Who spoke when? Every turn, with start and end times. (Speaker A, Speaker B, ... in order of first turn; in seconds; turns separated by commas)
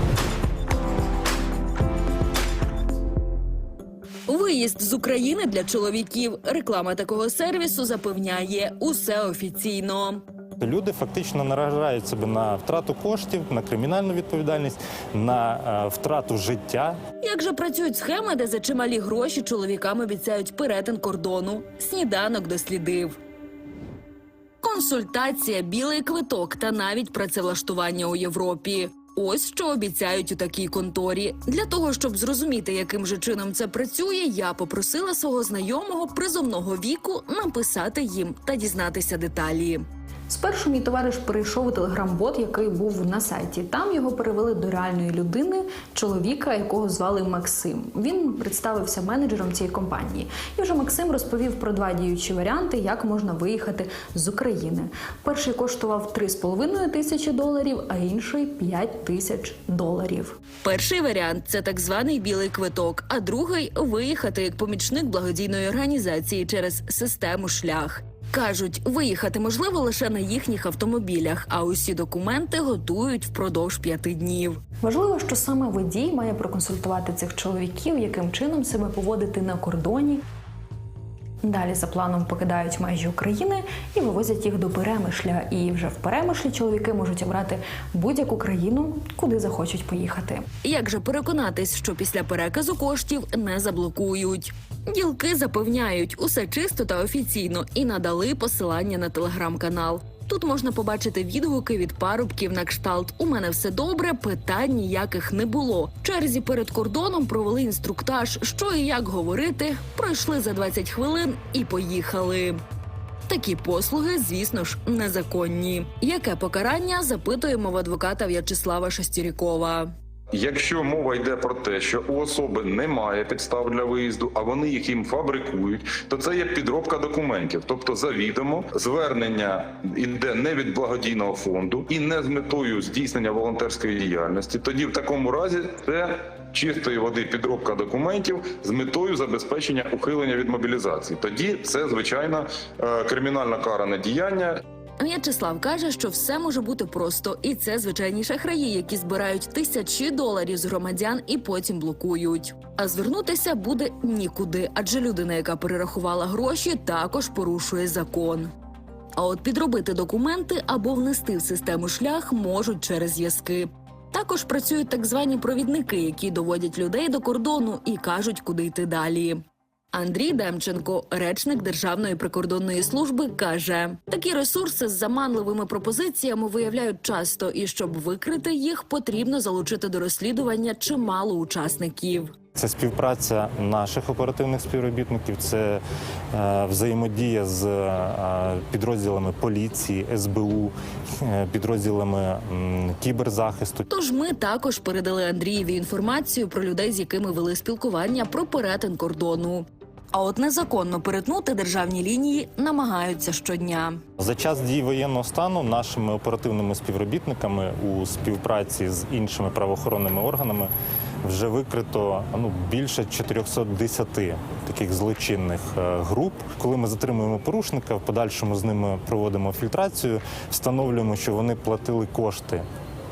Speaker A: 4.3-10.2, Speaker B: 10.6-17.0, Speaker A: 17.2-23.2, Speaker A: 24.6-39.8, Speaker C: 40.3-60.4, Speaker A: 60.6-74.6, Speaker C: 74.8-80.2, Speaker C: 81.4-90.5, Speaker A: 90.6-112.6, Speaker A: 113.2-119.9, Speaker D: 120.3-144.6, Speaker A: 145.0-158.5, Speaker A: 159.1-182.3, Speaker B: 182.6-193.9, Speaker A: 193.9-204.0, Speaker B: 204.2-210.7, Speaker B: 211.2-222.6